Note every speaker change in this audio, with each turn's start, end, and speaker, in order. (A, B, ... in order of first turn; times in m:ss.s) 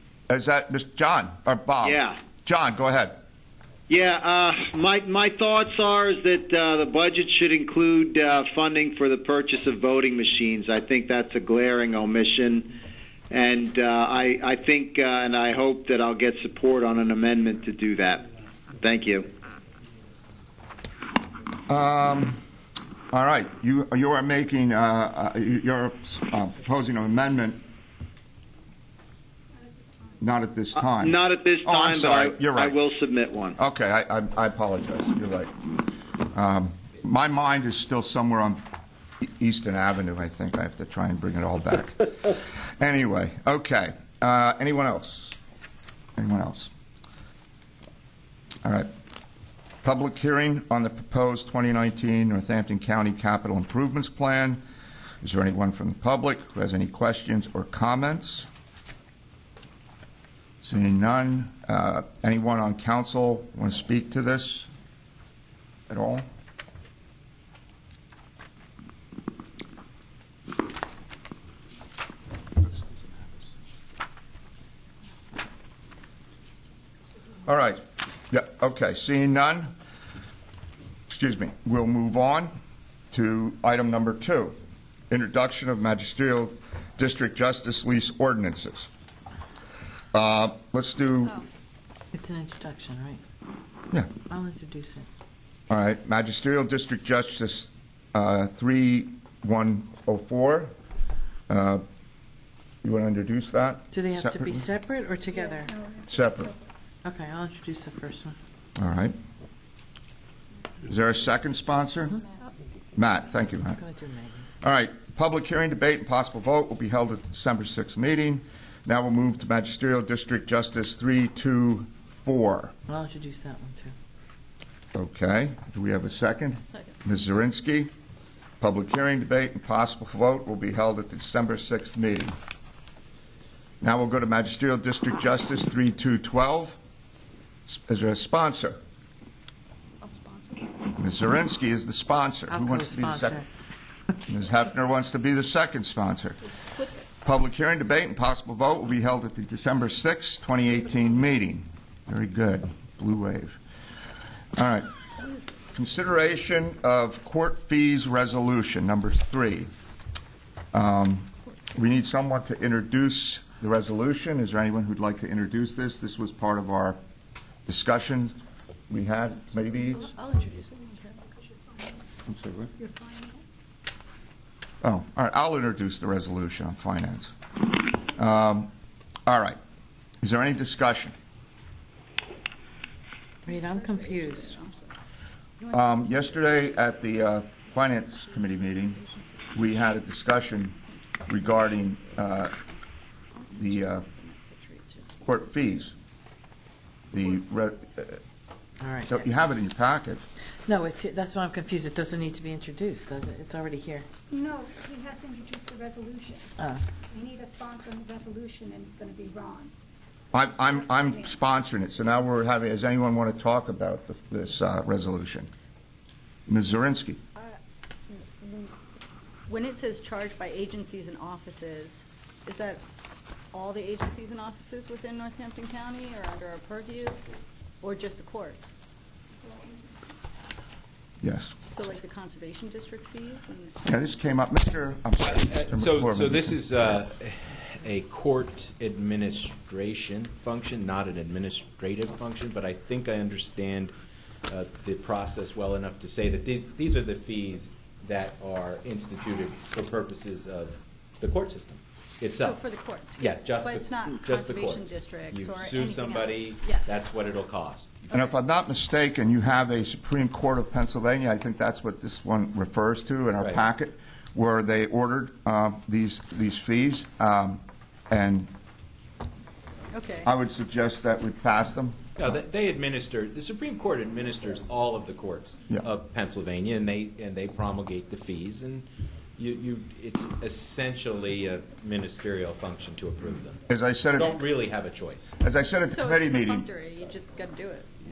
0:00.3-0:03.1 A
0:01.8-0:02.2 B
0:03.9-0:12.7 B
0:13.3-0:18.2 B
0:18.8-0:19.3 B
0:21.7-0:22.4 A
0:23.1-0:27.6 A
0:29.8-0:30.1 C
0:30.2-0:32.8 A
0:30.8-0:33.6 B
0:33.6-0:35.5 A
0:36.3-0:38.6 A
0:39.2-0:45.4 A
0:46.2-0:46.7 A
0:48.6-0:48.9 A
0:49.8-0:54.6 A
0:55.2-0:58.5 A
1:00.6-1:04.7 A
1:05.9-1:06.2 A
1:17.5-1:19.7 A
1:21.1-1:22.5 A
1:23.1-1:24.6 A
1:25.1-1:28.9 A
1:30.1-1:31.4 A
1:32.1-1:33.2 D
1:34.3-1:35.1 D
1:35.7-1:40.7 A
1:41.5-1:41.8 A
1:42.8-1:44.6 A
1:43.9-1:45.8 D
1:45.3-1:46.6 C
1:46.1-1:46.5 A
1:47.0-1:48.4 D
1:48.8-1:49.2 A
1:50.8-1:52.2 A
1:53.0-1:53.8 A
1:53.7-1:54.5 D
1:54.6-2:02.7 A
2:02.9-2:03.9 D
2:04.9-2:07.9 A
2:06.7-2:07.0 E
2:08.6-2:12.4 A
2:13.8-2:16.8 A
2:17.7-2:18.8 A
2:20.0-2:20.8 E
2:21.0-2:23.4 A
2:22.5-2:23.5 D
2:24.3-2:26.4 A
2:26.4-2:27.1 E
2:27.2-2:33.6 A
2:34.6-2:34.9 A
2:35.2-2:35.6 E
2:35.8-2:39.7 A
2:40.7-2:47.0 A
2:47.7-2:48.4 A
2:48.9-2:50.1 A
2:49.8-2:51.2 E
2:51.3-2:52.2 C
2:52.3-2:52.7 A
2:52.8-2:53.6 C
2:54.8-2:57.3 A
2:58.2-2:58.7 A
2:59.3-2:59.6 A
3:00.2-3:01.1 A
3:03.4-3:04.6 D
3:03.5-3:04.9 E
3:05.6-3:10.0 E
3:05.7-3:09.0 A
3:09.5-3:10.8 A
3:10.5-3:12.8 E
3:11.3-3:12.5 A
3:13.3-3:15.7 E
3:13.5-3:14.1 A
3:15.2-3:15.9 A
3:17.1-3:17.9 E
3:17.1-3:18.2 A
3:18.8-3:19.2 D
3:19.1-3:20.2 A
3:20.6-3:24.1 D
3:24.3-3:26.5 C
3:26.6-3:26.8 D
3:27.1-3:29.7 C
3:30.3-3:35.5 A
3:30.7-3:31.2 C
3:36.5-3:37.2 A
3:38.1-3:38.7 E
3:39.5-3:42.8 E
3:43.5-3:47.2 E
3:47.8-3:48.8 E
3:49.4-3:50.0 C
3:51.2-3:51.5 A
3:51.7-3:54.0 E
3:53.8-3:56.5 A
3:55.2-4:03.9 F
4:04.5-4:12.6 F
4:12.3-4:17.0 E
4:13.2-4:18.1 F
4:18.1-4:28.5 A
4:23.4-4:23.6 F
4:29.9-4:30.3 E
4:30.2-4:32.0 A
4:32.2-4:38.9 F
4:39.4-4:43.6 F
4:43.7-4:44.4 A
4:44.1-4:45.4 F
4:45.4-4:46.7 A
4:45.7-4:47.9 E